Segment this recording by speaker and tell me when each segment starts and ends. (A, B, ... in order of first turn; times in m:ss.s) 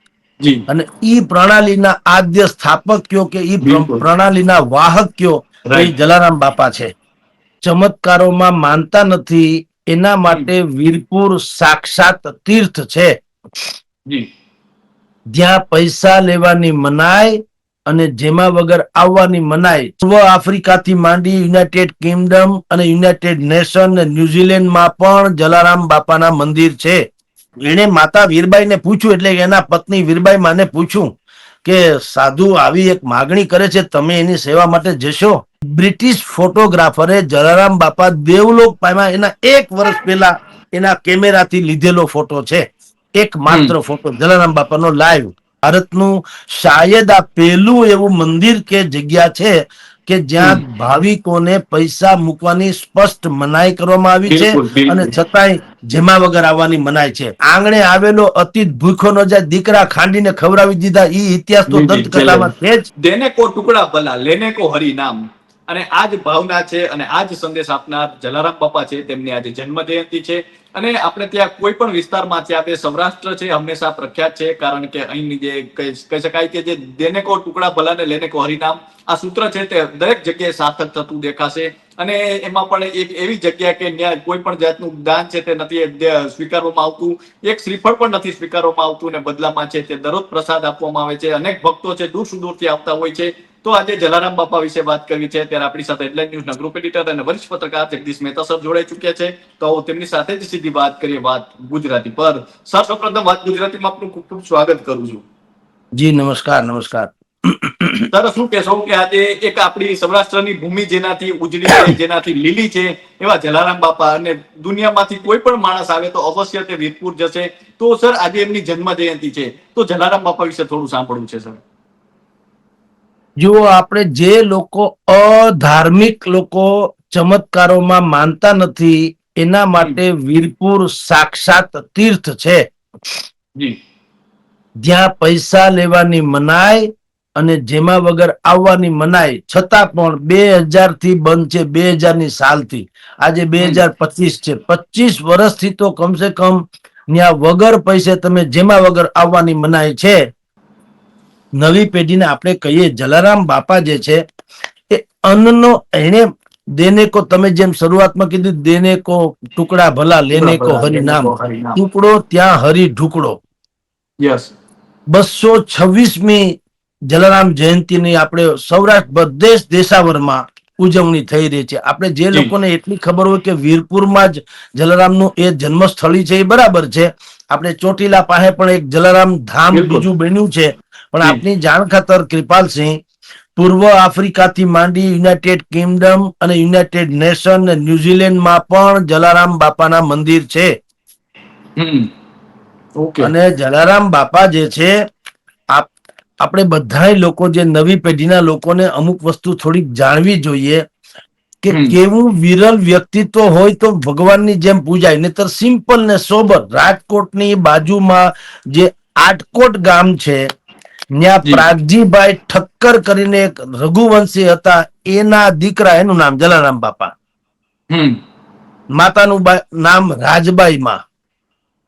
0:00.7-0:06.9 A
0:03.6-0:04.0 B
0:07.6-0:13.1 A
0:15.3-0:27.0 A
0:27.6-0:31.1 A
0:31.6-0:42.6 A
0:43.2-1:02.9 A
0:43.5-0:43.7 B
0:54.3-0:55.1 B
1:01.7-1:45.2 B
1:46.0-1:48.1 A
1:48.1-2:01.6 B
2:03.4-2:12.6 A
2:14.8-2:30.2 A
2:31.6-2:34.2 A
2:34.9-2:43.4 A
2:40.3-2:41.8 B
2:44.2-2:44.5 B
2:45.1-2:46.6 A
2:47.1-3:03.0 A
2:59.7-3:00.0 B
3:03.6-3:10.7 A
3:11.8-3:12.1 B
3:13.0-3:13.3 B
3:13.2-3:14.9 A
3:16.4-3:20.8 A
3:21.6-3:30.4 A
3:31.2-3:37.1 A
3:37.9-3:38.2 B
3:39.0-3:41.0 A